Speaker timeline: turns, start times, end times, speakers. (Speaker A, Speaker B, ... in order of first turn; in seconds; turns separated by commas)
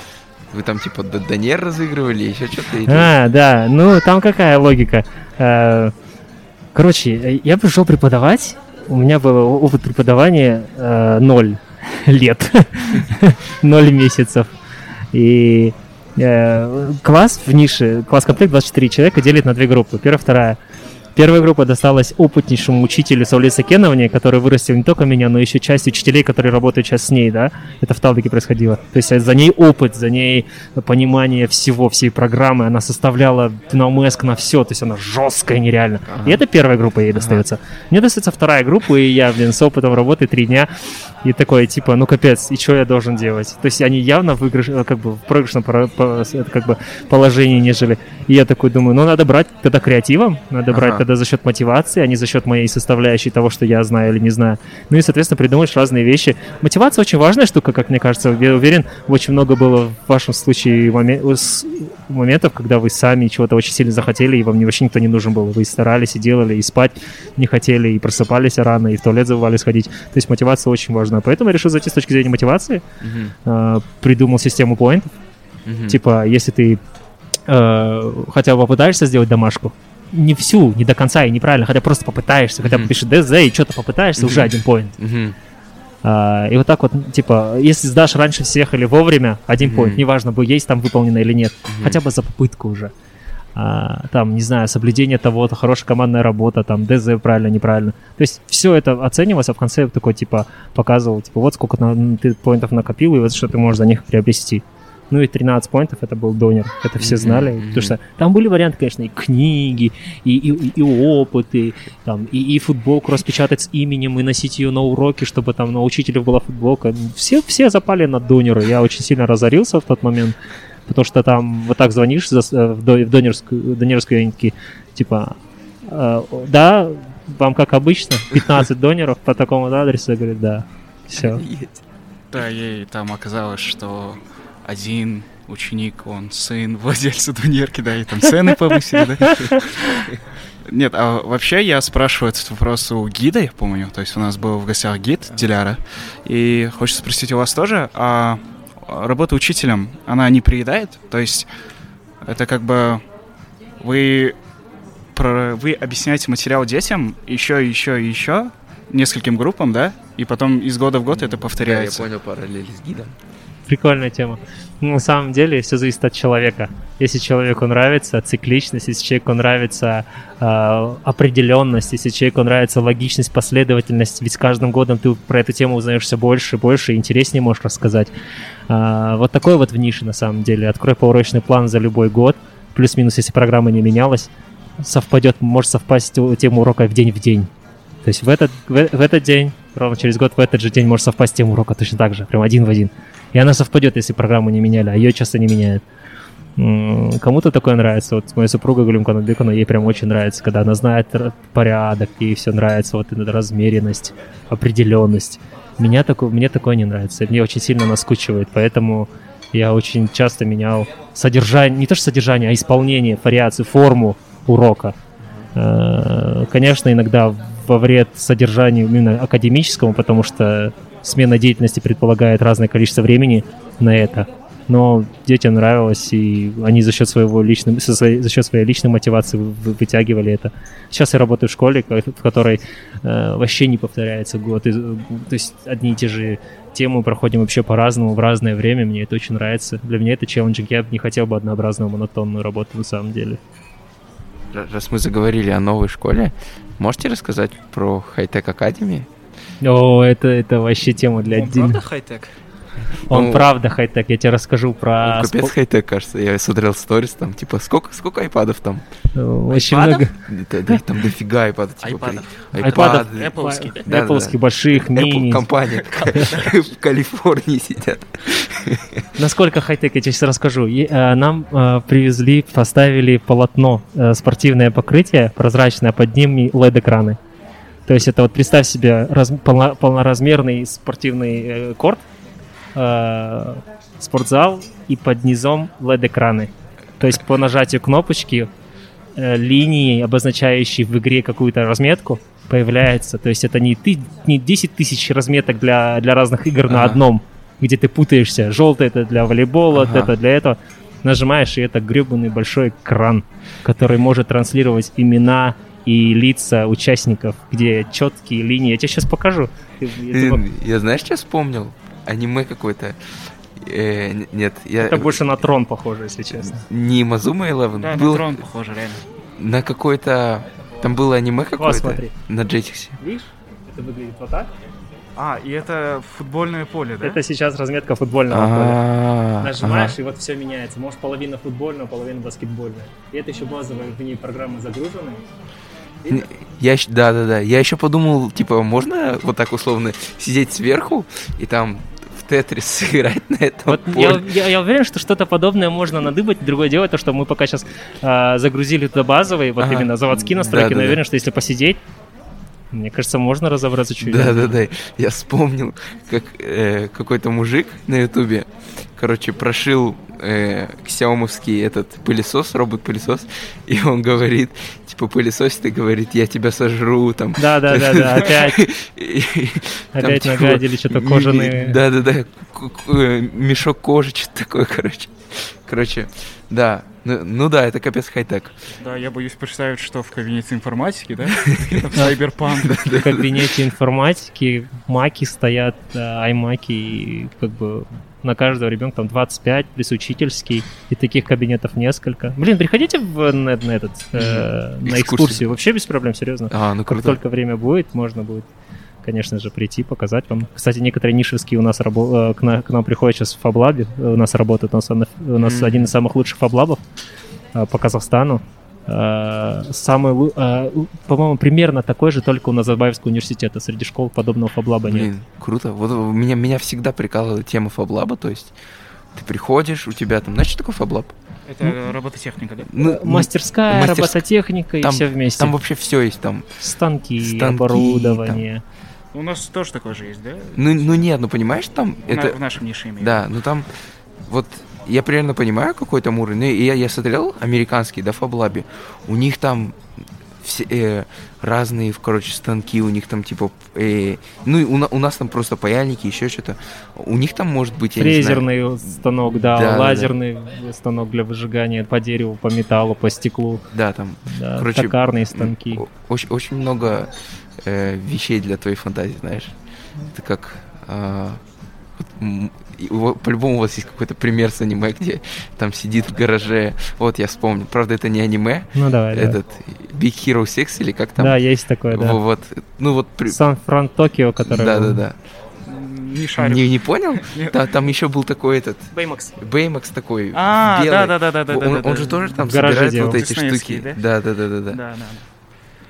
Speaker A: 0.5-3.1, Speaker B: 2.9-5.9, Speaker B: 6.7-14.5, Speaker B: 15.1-20.6, Speaker B: 21.1-40.7, Speaker A: 36.1-36.4, Speaker A: 37.1-37.4, Speaker B: 41.2-72.8, Speaker A: 50.7-51.0, Speaker A: 73.0-73.3, Speaker B: 73.4-75.1, Speaker A: 75.7-76.0, Speaker B: 75.9-76.8, Speaker B: 77.5-84.9, Speaker A: 82.6-82.9, Speaker A: 84.2-85.4, Speaker B: 86.0-92.9, Speaker A: 89.6-90.0, Speaker A: 91.7-92.0, Speaker B: 93.5-131.4, Speaker A: 107.0-108.0, Speaker A: 131.2-131.8, Speaker C: 132.3-140.0, Speaker C: 140.7-151.5, Speaker C: 152.2-153.0, Speaker C: 153.8-154.3, Speaker C: 155.1-162.1, Speaker A: 161.1-163.2, Speaker B: 163.7-178.1, Speaker B: 178.7-187.5, Speaker B: 188.0-195.8, Speaker B: 196.6-214.9, Speaker B: 215.5-243.4, Speaker A: 244.5-249.1, Speaker B: 249.6-251.8, Speaker C: 251.3-252.3, Speaker A: 253.1-253.5, Speaker B: 253.1-255.5, Speaker A: 255.0-258.8, Speaker B: 259.1-260.1, Speaker C: 259.5-260.0, Speaker A: 260.2-269.1, Speaker C: 261.8-263.9, Speaker B: 262.6-265.5, Speaker C: 265.9-266.6, Speaker B: 269.2-277.2, Speaker B: 277.9-282.0, Speaker B: 282.7-288.5, Speaker B: 289.1-310.4, Speaker A: 296.7-297.0, Speaker A: 299.7-300.1, Speaker A: 310.1-315.2, Speaker B: 314.8-316.6, Speaker A: 316.4-318.4, Speaker C: 317.8-319.0, Speaker A: 319.4-323.0, Speaker B: 321.6-322.1, Speaker B: 323.0-324.5, Speaker C: 325.1-327.2, Speaker B: 327.0-328.8, Speaker A: 328.3-329.9, Speaker B: 329.4-335.2, Speaker A: 336.1-344.3, Speaker B: 343.7-351.8, Speaker A: 349.6-351.0, Speaker B: 352.7-354.5, Speaker A: 354.0-378.5, Speaker B: 367.4-368.6, Speaker B: 369.9-371.8, Speaker C: 378.8-382.8, Speaker A: 381.3-381.9, Speaker A: 382.5-383.5, Speaker B: 382.9-398.5, Speaker A: 394.1-395.5, Speaker A: 396.5-397.2, Speaker B: 399.0-406.8, Speaker A: 405.4-405.9, Speaker B: 407.5-415.1, Speaker A: 414.9-418.5, Speaker A: 419.1-421.1, Speaker C: 421.5-422.7, Speaker A: 422.7-424.2, Speaker B: 422.8-425.6, Speaker A: 424.8-426.4, Speaker B: 426.6-428.6, Speaker A: 427.2-428.4, Speaker C: 429.1-430.8, Speaker A: 430.5-432.4, Speaker C: 432.1-433.2, Speaker A: 433.0-433.7, Speaker A: 434.3-439.8, Speaker A: 440.4-448.4, Speaker B: 447.9-453.6, Speaker A: 449.3-450.1, Speaker A: 453.7-459.5, Speaker B: 454.3-455.8, Speaker A: 460.1-461.4, Speaker A: 462.0-471.4, Speaker B: 468.7-469.4, Speaker B: 471.2-472.2, Speaker A: 471.9-473.4, Speaker B: 473.3-475.0, Speaker A: 474.4-475.1, Speaker C: 475.6-477.6, Speaker A: 476.4-484.8, Speaker B: 478.9-479.3, Speaker C: 480.3-484.0, Speaker B: 482.4-483.2, Speaker C: 484.7-485.2